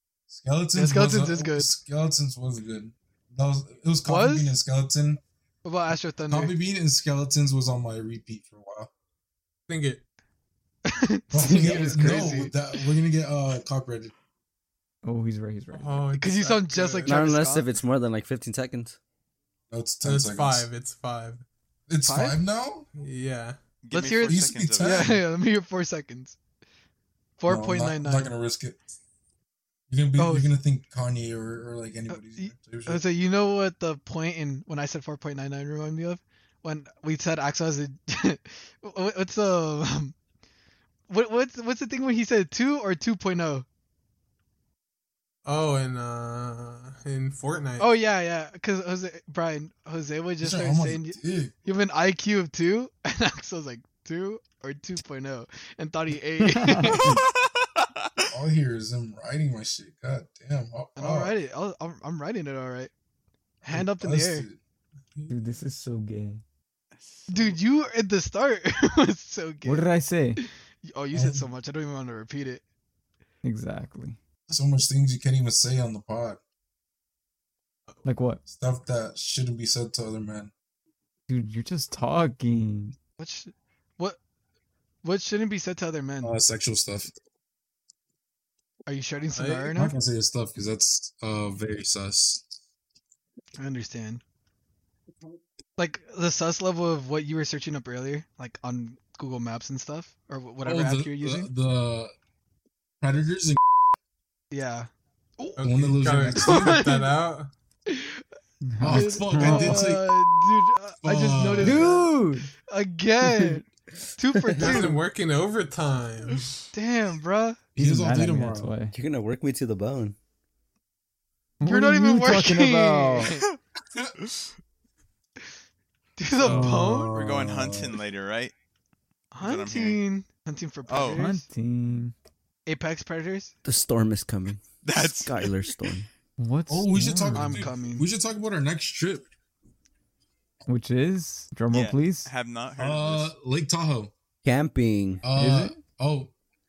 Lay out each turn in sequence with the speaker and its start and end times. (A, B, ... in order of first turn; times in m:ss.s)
0:00.3-0:05.2 A
0:00.7-0:01.7 B
0:04.0-0:04.6 B
0:05.6-0:06.5 B
0:06.3-0:08.9 A
0:09.7-0:10.0 C
0:10.8-0:12.9 B
0:11.3-0:14.1 A
0:15.0-0:16.1 D
0:15.7-0:17.3 C
0:16.2-0:17.7 B
0:17.0-0:19.0 E
0:19.7-0:20.7 A
0:20.0-0:21.4 C
0:21.9-0:22.9 A
0:22.0-0:22.4 B
0:23.0-0:23.6 C
0:23.8-0:25.1 F
0:23.9-0:26.4 B
0:24.2-0:25.2 A
0:27.4-0:28.3 B
0:27.5-0:28.8 A
0:29.9-0:33.1 A
0:30.2-0:30.5 B
0:32.1-0:40.1 B
0:41.1-0:43.6 B
0:45.4-0:47.9 C
0:47.8-0:57.2 B
0:50.4-0:51.5 A
0:56.4-0:57.2 D
0:57.0-0:58.2 F
0:58.3-1:01.3 A
1:01.0-1:02.9 B
1:03.6-1:04.4 B
1:03.7-1:04.6 A
1:05.3-1:06.4 D
1:07.0-1:07.5 F
1:07.3-1:09.8 B
1:09.6-1:10.4 D
1:10.4-1:12.6 B
1:11.1-1:11.5 A
1:13.4-1:14.2 D
1:14.5-1:16.4 A
1:18.0-1:18.4 D
1:18.5-1:20.5 A
1:21.3-1:23.0 D
1:23.2-1:24.2 B
1:25.0-1:26.4 B
1:26.2-1:27.1 A
1:28.8-1:29.9 B
1:29.3-1:29.8 C
1:29.8-1:32.4 A
1:33.6-1:34.2 B
1:35.8-1:41.5 B
1:40.6-1:42.1 A
1:43.0-1:43.6 A
1:44.5-1:45.6 B
1:45.6-1:47.5 C
1:45.6-1:46.9 A
1:46.4-1:47.1 B
1:47.9-1:48.2 B
1:48.6-1:49.8 D
1:48.8-1:50.1 A
1:48.8-1:55.0 B
1:51.0-1:51.9 A
1:51.6-1:52.5 D
1:53.2-1:53.6 E
1:54.4-1:54.9 E
1:54.5-1:56.5 C
1:56.7-1:57.6 B
1:57.7-1:58.7 A
1:57.8-1:58.9 D
1:58.9-2:00.2 E
2:01.6-2:03.3 D
2:01.6-2:03.5 B
2:06.2-2:07.1 B
2:06.3-2:08.0 A
2:06.4-2:07.0 D
2:07.1-2:08.5 F
2:09.3-2:11.4 B
2:09.4-2:10.0 F
2:10.9-2:11.2 F
2:11.0-2:12.1 D
2:12.6-2:13.5 B
2:13.6-2:16.1 E
2:14.8-2:15.8 F
2:16.4-2:17.6 D
2:16.7-2:19.3 A
2:17.3-2:18.1 B
2:20.7-2:22.3 D
2:21.7-2:23.3 F
2:22.8-2:24.1 A
2:24.4-2:25.2 E
2:25.2-2:26.3 A
2:25.3-2:25.8 D